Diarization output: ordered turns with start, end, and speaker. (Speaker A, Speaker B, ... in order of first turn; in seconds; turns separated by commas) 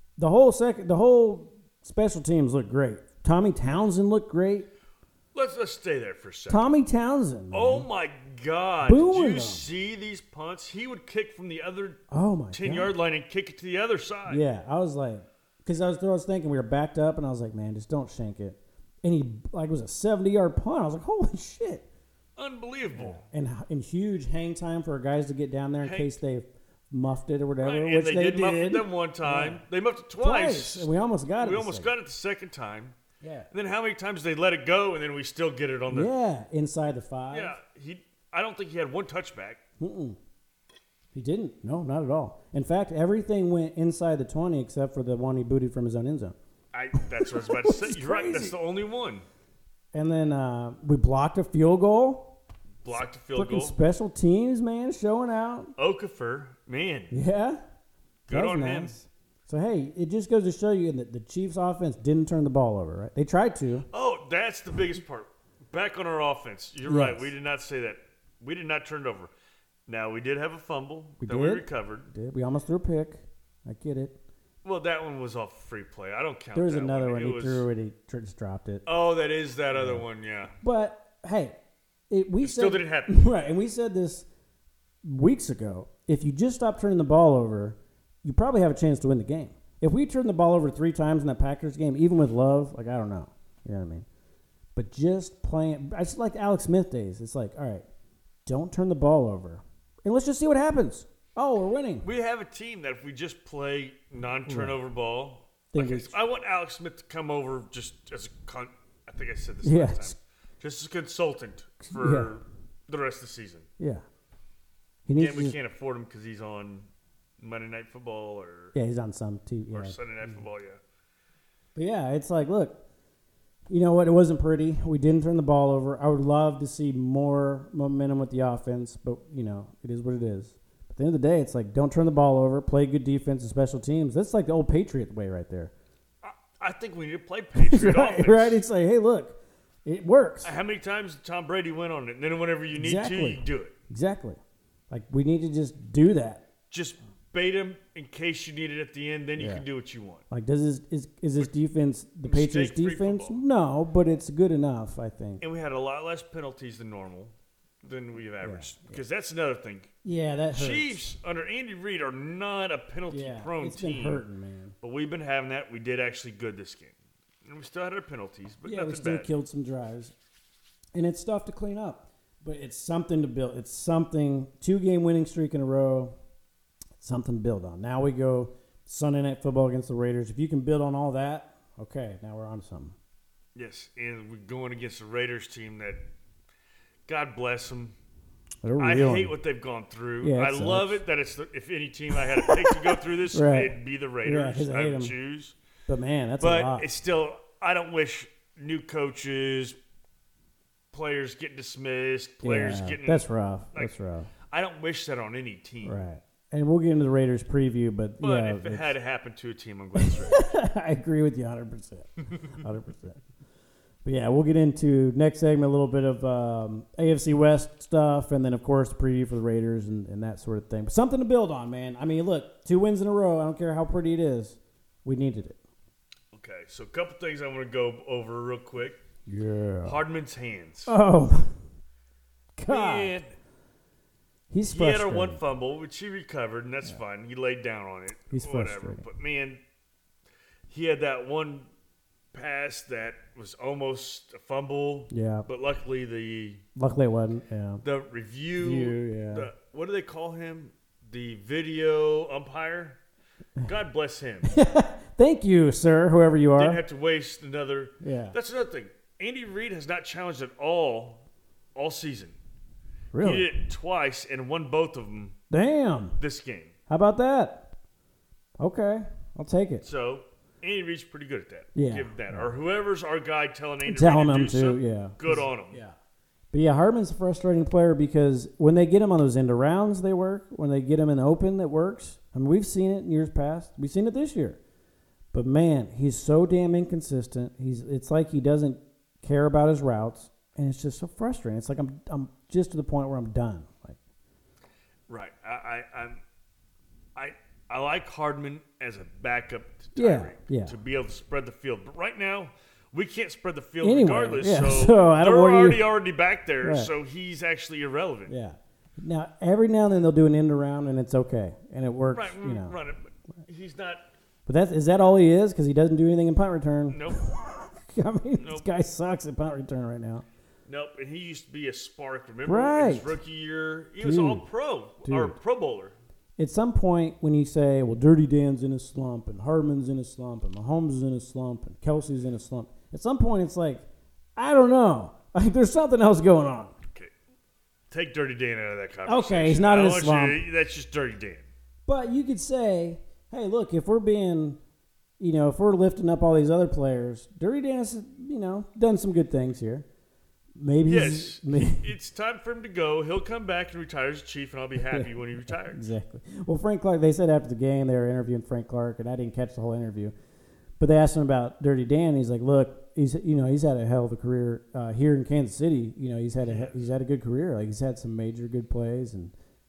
Speaker A: 0.2-4.7, Speaker B: 5.3-6.7, Speaker A: 6.5-7.8, Speaker B: 7.5-12.0, Speaker A: 8.8-9.7, Speaker A: 12.1-12.9, Speaker B: 12.5-14.4, Speaker A: 14.3-21.8, Speaker B: 22.4-23.2, Speaker A: 22.9-29.6, Speaker B: 25.8-26.2, Speaker B: 27.6-33.0, Speaker A: 30.2-31.9, Speaker A: 33.2-33.5, Speaker B: 33.5-36.1, Speaker A: 35.9-37.5, Speaker B: 37.3-39.6, Speaker A: 39.8-40.2, Speaker A: 41.1-46.4, Speaker B: 46.7-49.2, Speaker A: 46.9-48.5, Speaker A: 49.9-52.3, Speaker B: 52.8-53.8, Speaker A: 53.3-55.7, Speaker B: 55.8-57.1, Speaker A: 57.1-57.6, Speaker B: 58.3-58.9, Speaker A: 58.3-63.9, Speaker B: 63.9-69.3, Speaker A: 66.8-67.3, Speaker B: 69.9-72.1, Speaker A: 71.2-74.2, Speaker B: 74.6-77.7, Speaker A: 76.5-78.8, Speaker B: 78.8-80.5, Speaker A: 79.7-80.0, Speaker A: 80.6-81.5, Speaker A: 82.1-84.3, Speaker B: 82.4-83.2, Speaker A: 85.0-94.0, Speaker A: 94.7-97.8, Speaker A: 98.5-102.0, Speaker B: 102.0-113.7, Speaker A: 104.5-104.8, Speaker A: 105.7-106.1, Speaker A: 109.6-110.2, Speaker A: 111.9-112.3, Speaker A: 115.1-115.6, Speaker B: 115.2-118.7, Speaker A: 118.7-120.4, Speaker B: 119.7-120.8, Speaker A: 121.7-122.8, Speaker A: 123.7-135.7, Speaker B: 136.2-138.6, Speaker A: 137.6-140.5, Speaker B: 140.4-143.7, Speaker A: 142.7-144.4, Speaker A: 144.9-146.4, Speaker B: 146.7-150.2, Speaker A: 149.4-149.6, Speaker A: 150.3-155.4, Speaker B: 152.2-153.4, Speaker B: 155.4-159.9, Speaker A: 158.4-159.0, Speaker A: 160.0-161.1, Speaker B: 160.5-164.2, Speaker A: 163.1-164.8, Speaker B: 164.8-169.3, Speaker A: 168.6-170.1, Speaker A: 170.9-176.2, Speaker A: 177.0-182.9, Speaker B: 183.5-186.0, Speaker B: 187.1-187.9, Speaker A: 188.6-189.3, Speaker B: 188.8-195.6, Speaker A: 190.2-191.0, Speaker A: 192.1-195.1, Speaker A: 195.9-196.9, Speaker B: 196.4-199.8, Speaker B: 200.9-203.9, Speaker A: 202.4-204.3, Speaker B: 204.5-206.0, Speaker A: 205.8-208.9, Speaker B: 208.2-210.4, Speaker A: 210.0-213.2, Speaker A: 214.0-225.6, Speaker B: 226.3-229.0, Speaker A: 229.2-230.0, Speaker B: 229.8-230.9, Speaker A: 230.8-231.5, Speaker A: 232.6-233.2, Speaker B: 232.7-233.3, Speaker A: 234.5-235.4, Speaker B: 234.7-239.6, Speaker A: 238.3-239.1, Speaker B: 240.7-241.7, Speaker B: 242.3-246.6, Speaker A: 245.1-245.4, Speaker A: 246.8-247.8, Speaker B: 247.8-253.0, Speaker A: 248.6-249.5, Speaker B: 253.6-254.6, Speaker A: 254.4-256.8, Speaker B: 256.6-262.4, Speaker A: 258.0-258.4, Speaker A: 263.1-263.5, Speaker B: 263.2-265.4, Speaker A: 265.5-266.2, Speaker B: 266.2-266.7, Speaker A: 266.9-267.7, Speaker A: 268.6-269.8, Speaker B: 269.8-275.8, Speaker A: 271.7-272.5, Speaker A: 273.8-275.9, Speaker A: 276.5-284.6, Speaker A: 285.3-294.0, Speaker B: 295.1-296.2, Speaker B: 297.1-308.3, Speaker A: 299.9-300.8, Speaker A: 303.8-305.8, Speaker A: 306.6-306.9, Speaker A: 308.3-312.7, Speaker B: 312.1-314.1, Speaker A: 314.4-320.2, Speaker B: 316.9-317.2, Speaker B: 318.4-318.6, Speaker B: 320.7-325.9, Speaker A: 322.4-323.2, Speaker A: 324.0-324.4, Speaker A: 325.0-325.4, Speaker A: 326.4-336.8, Speaker B: 337.9-341.5, Speaker A: 339.1-340.4, Speaker A: 341.9-344.6, Speaker A: 345.2-349.9, Speaker A: 350.6-351.9, Speaker B: 350.9-355.9, Speaker A: 354.8-360.1, Speaker A: 360.8-369.3, Speaker B: 366.4-366.7